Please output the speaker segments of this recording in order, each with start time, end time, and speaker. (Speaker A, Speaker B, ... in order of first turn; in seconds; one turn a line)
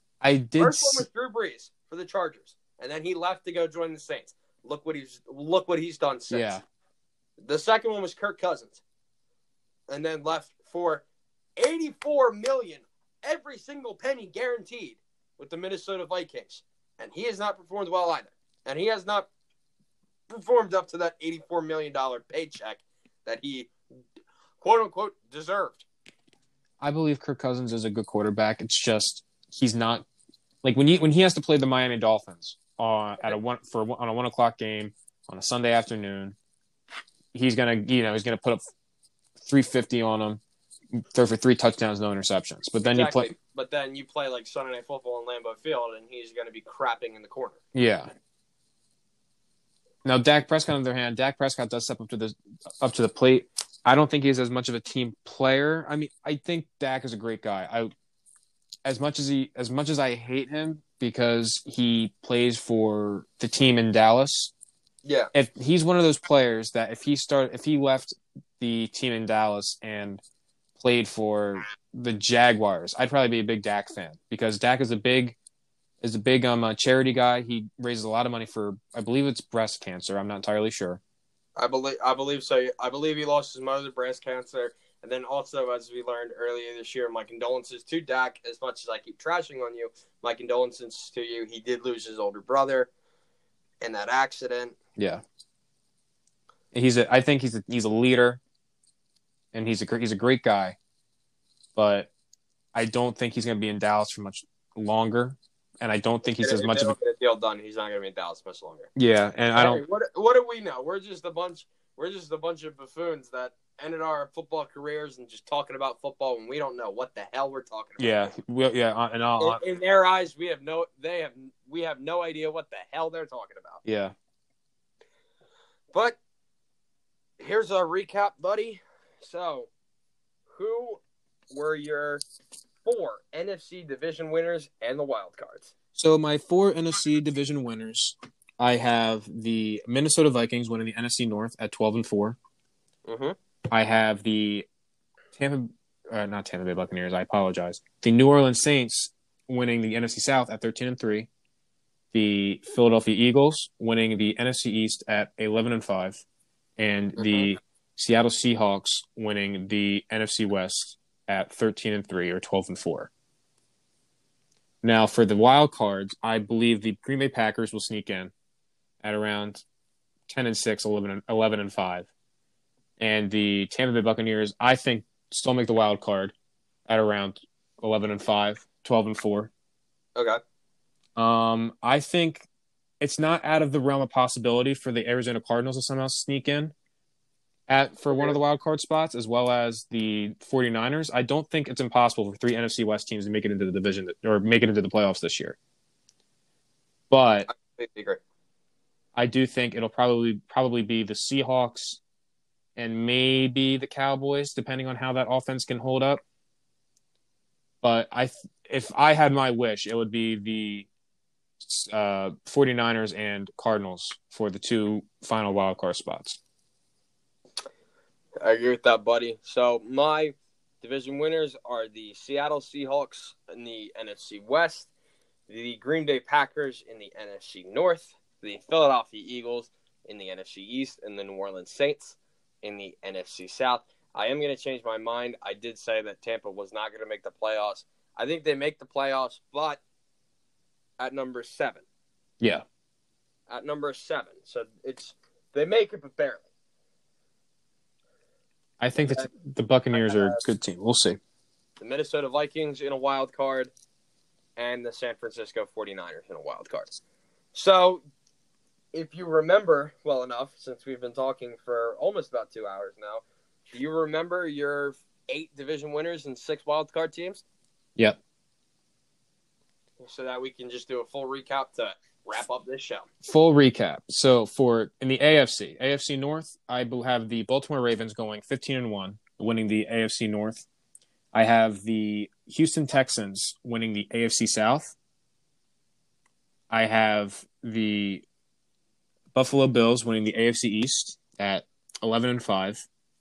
Speaker A: 0.2-1.1
Speaker B: 0.6-6.6
Speaker A: 6.3-6.6
Speaker B: 7.4-8.8
Speaker B: 9.9-11.1
Speaker B: 11.6-19.3
Speaker B: 20.3-23.8
Speaker B: 24.6-25.9
Speaker A: 26.8-30.1
Speaker A: 30.6-36.4
Speaker A: 37.3-38.6
Speaker A: 39.4-40.4
Speaker A: 41.0-43.3
Speaker B: 42.8-47.6
Speaker A: 47.7-48.1
Speaker A: 50.0-57.9
Speaker A: 58.9-64.5
Speaker B: 65.0-65.3
Speaker A: 65.3-70.2
Speaker A: 70.8-75.4
Speaker A: 76.0-81.0
Speaker B: 81.6-92.9
Speaker B: 93.8-94.8
Speaker A: 95.0-95.2
Speaker A: 96.7-98.4
Speaker A: 99.5-100.8
Speaker A: 101.8-102.1
Speaker A: 102.7-107.0
Speaker B: 106.2-108.9
Speaker A: 109.0-109.8
Speaker B: 109.6-118.3
Speaker A: 118.0-119.6
Speaker B: 119.4-123.8
Speaker A: 123.8-124.1
Speaker B: 125.9-126.2
Speaker B: 127.4-129.7
Speaker B: 130.5-132.2
Speaker B: 132.8-135.7
Speaker A: 135.9-142.4
Speaker B: 143.1-143.3
Speaker A: 143.7-144.7
Speaker A: 145.3-151.3
Speaker A: 152.1-156.2
Speaker A: 156.8-163.1
Speaker B: 157.2-157.5
Speaker A: 164.8-168.3
Speaker A: 169.0-169.6
Speaker A: 170.3-172.1
Speaker A: 173.0-176.3
Speaker A: 176.9-179.5
Speaker A: 181.2-182.5
Speaker A: 183.0-186.7
Speaker A: 187.7-195.6
Speaker B: 188.1-188.4
Speaker A: 197.1-197.5
Speaker B: 197.5-198.2
Speaker A: 199.2-202.0
Speaker A: 202.8-206.2
Speaker A: 207.8-210.9
Speaker A: 211.6-216.4
Speaker B: 218.4-224.9
Speaker B: 225.5-239.8
Speaker B: 241.0-241.8
Speaker B: 243.5-246.5
Speaker A: 248.8-251.2
Speaker B: 249.9-250.4
Speaker B: 251.8-253.7
Speaker B: 254.6-257.0
Speaker B: 257.5-258.0
Speaker B: 258.9-267.4
Speaker B: 270.0-273.1
Speaker A: 273.2-280.6
Speaker A: 281.3-284.9
Speaker A: 286.7-288.2
Speaker A: 289.3-292.9